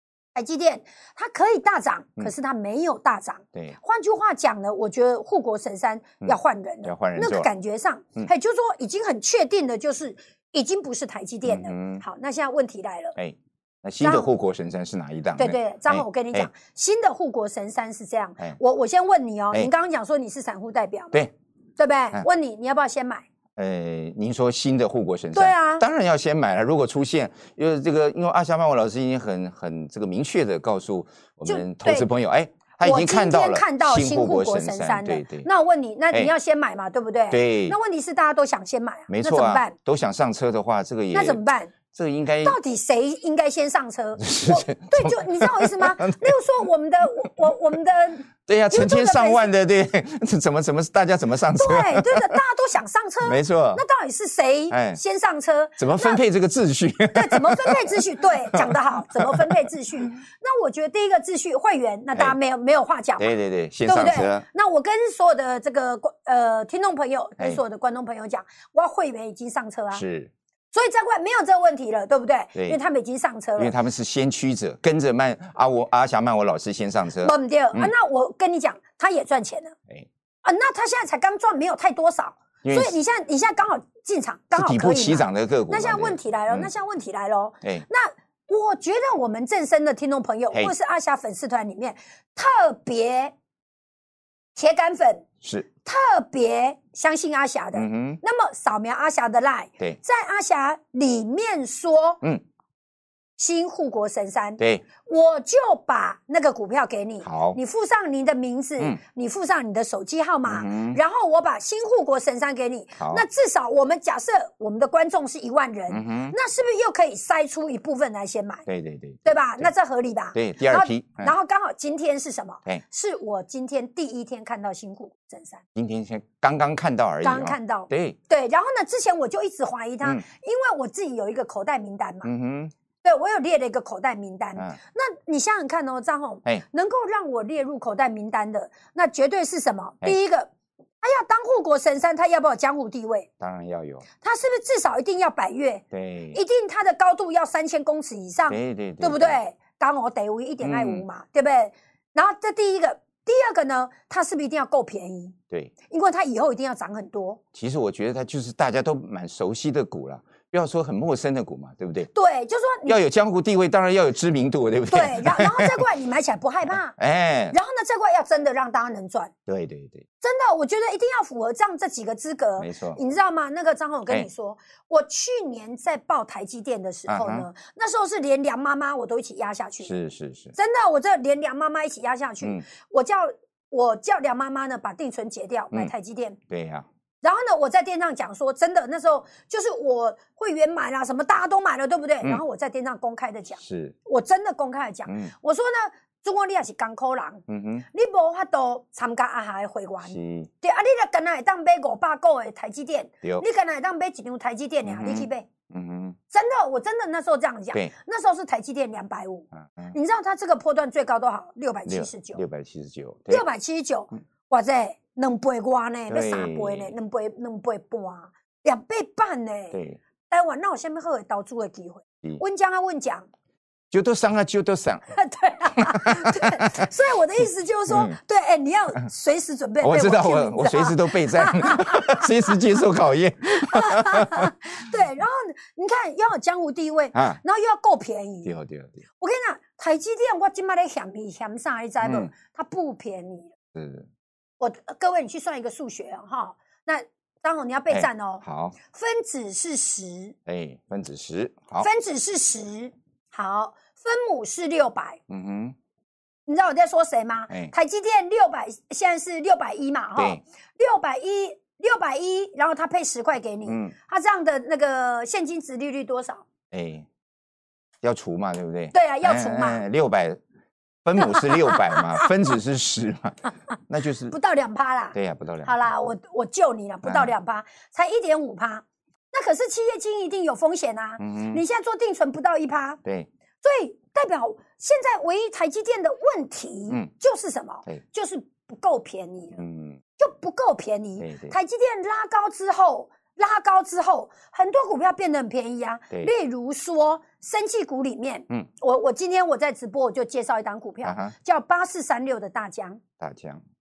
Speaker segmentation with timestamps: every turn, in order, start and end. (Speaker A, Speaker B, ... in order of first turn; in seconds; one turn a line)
Speaker A: 0.3-13.2
Speaker B: 6.2-7.5
Speaker B: 11.4-12.0
Speaker B: 13.2-16.5
Speaker A: 14.0-14.3
Speaker A: 15.4-21.2
Speaker A: 21.8-23.2
Speaker B: 23.6-35.5
Speaker A: 25.3-25.9
Speaker A: 31.4-32.1
Speaker A: 32.8-39.7
Speaker B: 37.3-37.8
Speaker B: 39.1-42.6
Speaker A: 41.1-41.7
Speaker A: 42.4-49.5
Speaker B: 44.2-46.3
Speaker B: 48.5-52.4
Speaker A: 51.5-56.2
Speaker B: 53.2-53.8
Speaker B: 54.7-55.0
Speaker B: 55.8-59.5
Speaker A: 57.1-63.3
Speaker B: 63.2-64.4
Speaker A: 63.8-70.0
Speaker B: 69.9-70.3
Speaker A: 70.7-73.7
Speaker B: 73.6-77.9
Speaker A: 77.2-79.8
Speaker A: 80.4-93.3
Speaker B: 82.6-83.0
Speaker B: 84.5-86.7
Speaker A: 94.5-95.2
Speaker B: 95.4-95.7
Speaker A: 95.8-102.2
Speaker B: 97.7-98.2
Speaker A: 103.4-118.7
Speaker B: 107.2-107.6
Speaker B: 110.5-111.0
Speaker B: 113.0-113.2
Speaker B: 115.9-116.3
Speaker B: 118.7-119.7
Speaker A: 119.2-125.6
Speaker B: 120.3-121.3
Speaker B: 125.7-128.2
Speaker A: 127.2-132.3
Speaker B: 132.2-132.7
Speaker A: 133.0-140.5
Speaker A: 141.0-143.3
Speaker B: 143.4-144.1
Speaker A: 144.2-157.4
Speaker B: 145.9-146.4
Speaker B: 148.5-149.4
Speaker B: 150.6-151.1
Speaker B: 157.5-162.1
Speaker A: 162.1-163.0
Speaker B: 162.8-165.8
Speaker A: 164.9-166.9
Speaker B: 166.9-167.6
Speaker A: 167.5-169.3
Speaker B: 169.5-170.1
Speaker A: 170.2-179.9
Speaker B: 172.6-173.0
Speaker B: 177.1-177.5
Speaker B: 179.8-180.5
Speaker A: 180.6-186.4
Speaker B: 186.5-186.8
Speaker A: 187.2-205.5
Speaker B: 193.6-193.9
Speaker B: 195.1-195.3
Speaker B: 197.5-197.8
Speaker B: 200.0-200.5
Speaker B: 204.8-206.2
Speaker A: 206.3-212.4
Speaker B: 209.5-209.9
Speaker B: 211.8-213.4
Speaker A: 213.3-219.8
Speaker B: 216.1-216.9
Speaker B: 219.7-220.0
Speaker A: 220.3-223.3
Speaker B: 223.9-225.1
Speaker A: 225.1-232.6
Speaker B: 225.7-226.9
Speaker B: 227.9-228.2
Speaker B: 229.8-234.5
Speaker A: 233.4-238.5
Speaker B: 237.1-237.4
Speaker B: 238.4-239.0
Speaker A: 239.2-243.5
Speaker B: 242.0-242.3
Speaker B: 243.7-244.1
Speaker A: 244.6-250.3
Speaker B: 247.9-248.8
Speaker B: 250.4-251.9
Speaker A: 251.8-255.2
Speaker B: 255.3-255.7
Speaker A: 256.5-266.4
Speaker B: 260.1-260.4
Speaker B: 263.6-263.9
Speaker B: 266.7-267.1
Speaker B: 268.0-270.4
Speaker A: 268.9-269.8
Speaker B: 271.0-274.4
Speaker A: 271.2-272.5
Speaker A: 274.3-283.0
Speaker B: 275.1-275.9
Speaker B: 277.0-277.3
Speaker B: 281.2-281.6
Speaker A: 283.6-289.6
Speaker B: 289.6-290.0
Speaker A: 290.2-303.0
Speaker B: 291.2-291.5
Speaker B: 301.0-301.3
Speaker B: 303.2-303.6